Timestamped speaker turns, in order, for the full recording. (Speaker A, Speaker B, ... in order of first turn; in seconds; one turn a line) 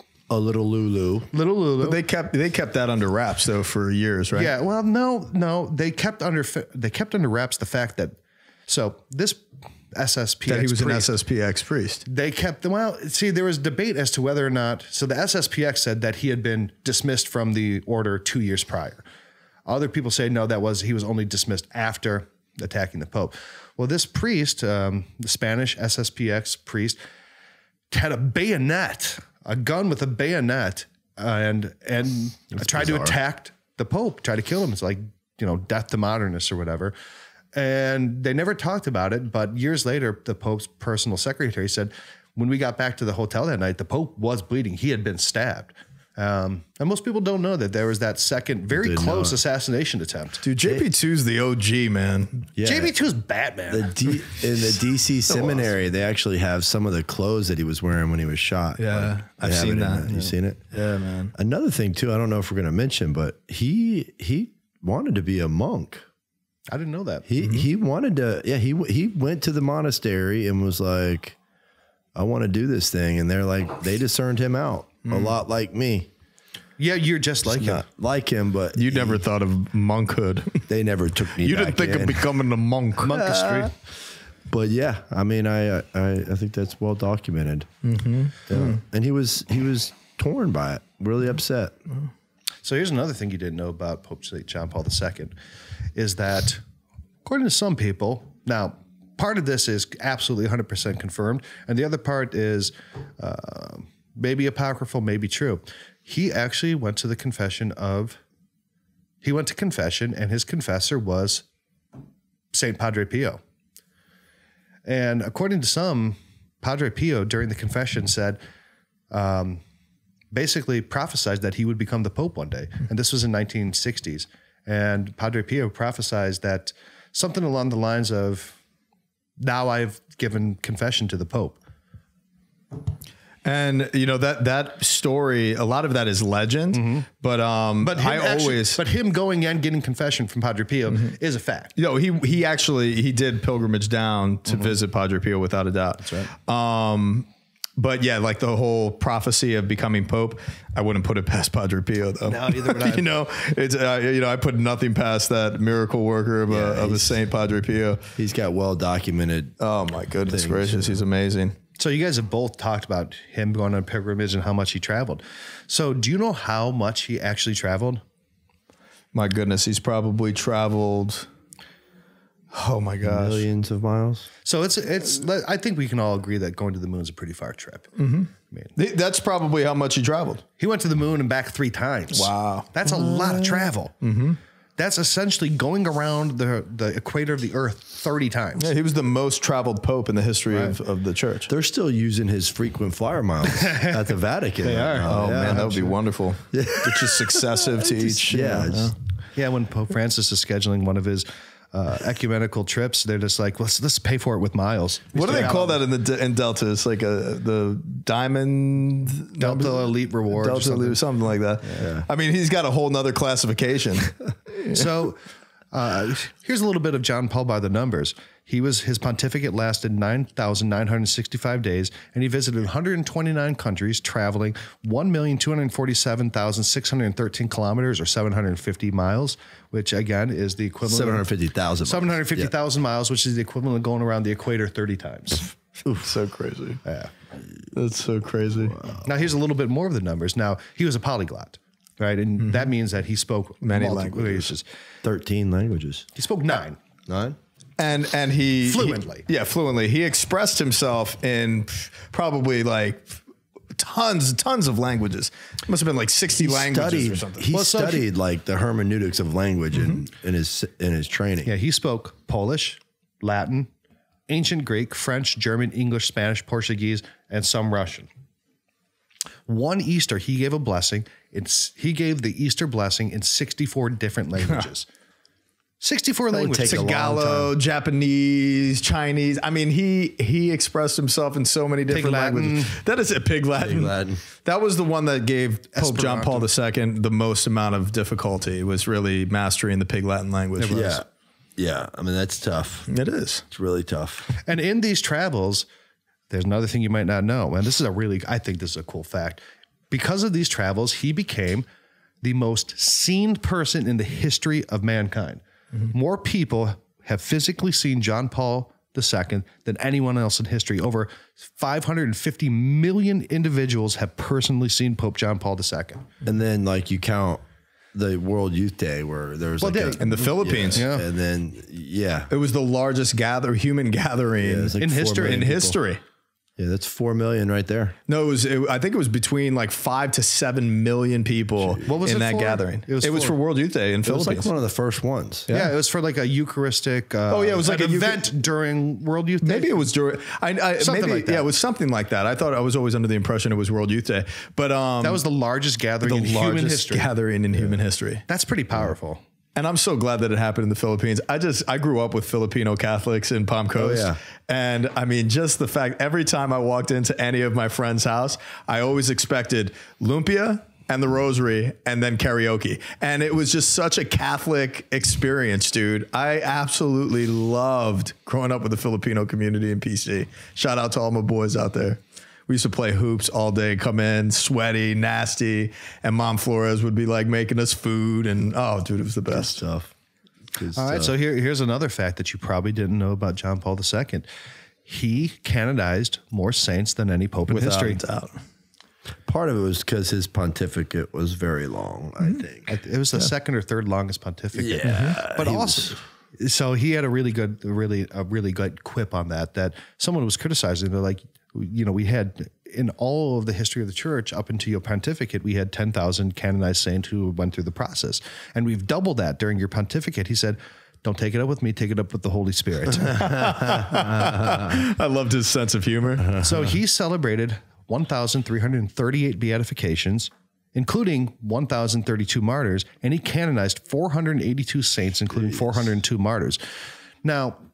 Speaker A: 0.3-1.3
Speaker B: 1.3-2.0
Speaker C: 1.8-4.5
Speaker B: 4.3-8.2
Speaker B: 8.7-11.1
Speaker C: 10.5-12.0
Speaker B: 12.1-19.0
Speaker B: 19.7-27.0
Speaker B: 27.9-36.9
Speaker A: 32.5-33.1
Speaker B: 37.5-50.4
Speaker A: 48.8-49.4
Speaker C: 50.4-52.5
Speaker A: 52.6-52.9
Speaker B: 52.6-53.9
Speaker A: 53.7-60.7
Speaker B: 55.3-55.7
Speaker C: 58.8-61.3
Speaker A: 61.4-66.0
Speaker B: 66.7-67.2
Speaker A: 67.3-71.4
Speaker A: 72.2-76.1
Speaker C: 75.1-75.4
Speaker B: 76.8-77.8
Speaker A: 77.5-79.2
Speaker C: 78.8-80.7
Speaker A: 80.7-82.3
Speaker C: 81.4-83.7
Speaker B: 83.0-83.7
Speaker A: 84.5-87.7
Speaker C: 87.8-88.8
Speaker A: 88.5-91.8
Speaker B: 92.6-95.3
Speaker B: 96.0-96.6
Speaker B: 97.2-108.2
Speaker B: 109.2-111.5
Speaker B: 112.5-113.4
Speaker B: 114.8-118.4
Speaker B: 119.1-119.6
Speaker B: 120.3-128.6
Speaker B: 129.4-131.6
Speaker C: 133.4-138.8
Speaker B: 136.7-137.1
Speaker B: 137.8-141.7
Speaker C: 141.8-158.0
Speaker B: 146.0-146.3
Speaker B: 152.3-153.1
Speaker A: 156.5-157.1
Speaker A: 158.2-159.5
Speaker C: 159.6-161.6
Speaker A: 160.3-161.0
Speaker B: 161.8-168.0
Speaker C: 169.1-171.3
Speaker C: 172.5-173.4
Speaker A: 173.0-174.3
Speaker B: 174.4-177.9
Speaker C: 178.0-180.4
Speaker B: 180.6-183.9
Speaker C: 182.1-182.9
Speaker C: 184.0-184.4
Speaker B: 184.8-188.7
Speaker C: 188.6-191.5
Speaker B: 190.5-190.8
Speaker A: 191.5-195.9
Speaker B: 193.5-195.8
Speaker C: 195.1-198.9
Speaker A: 196.5-198.9
Speaker B: 199.3-205.8
Speaker C: 205.1-214.9
Speaker B: 209.4-211.0
Speaker A: 211.8-212.1
Speaker B: 214.7-215.2
Speaker B: 215.7-231.3
Speaker A: 230.8-232.5
Speaker B: 231.8-235.4
Speaker C: 236.0-236.8
Speaker B: 236.8-237.1
Speaker C: 237.7-238.8
Speaker B: 239.0-244.7
Speaker C: 242.4-242.7
Speaker C: 243.6-244.5
Speaker A: 245.0-246.1
Speaker B: 246.2-246.8
Speaker A: 247.1-247.4
Speaker C: 247.8-253.2
Speaker B: 248.7-249.2
Speaker C: 253.7-257.6
Speaker A: 256.4-261.5
Speaker B: 257.5-258.1
Speaker B: 261.4-263.7
Speaker B: 264.3-268.1
Speaker B: 269.5-274.9
Speaker B: 275.8-277.5
Speaker A: 276.3-277.5
Speaker C: 276.7-290.8
Speaker B: 281.9-282.8
Speaker A: 283.6-284.2
Speaker B: 285.8-286.5
Speaker B: 290.6-291.0
Speaker A: 290.7-291.1
Speaker A: 291.6-292.9
Speaker C: 292.9-293.4
Speaker A: 293.5-294.3
Speaker B: 294.4-295.7
Speaker B: 296.3-299.4
Speaker B: 299.9-301.7
Speaker B: 302.2-316.1
Speaker A: 316.2-317.4
Speaker A: 317.9-322.3
Speaker B: 319.6-321.1
Speaker C: 320.0-320.9
Speaker C: 322.3-326.0
Speaker A: 324.4-325.8
Speaker B: 324.8-325.5
Speaker A: 326.6-328.0
Speaker C: 328.1-334.5
Speaker B: 331.9-333.4
Speaker A: 334.0-335.5
Speaker B: 335.5-339.9
Speaker C: 337.3-338.2
Speaker C: 339.4-345.2
Speaker B: 340.8-341.5
Speaker B: 345.0-347.1
Speaker C: 346.0-348.2
Speaker B: 348.3-349.2
Speaker C: 349.6-379.6
Speaker A: 353.8-354.2
Speaker A: 379.3-379.9
Speaker A: 380.6-381.1
Speaker B: 380.8-384.3
Speaker B: 384.9-388.0
Speaker C: 387.5-388.4
Speaker A: 389.3-392.8
Speaker B: 392.7-413.4
Speaker A: 394.6-396.0
Speaker C: 394.8-395.2
Speaker C: 413.0-416.4
Speaker B: 416.4-426.6
Speaker B: 427.2-427.6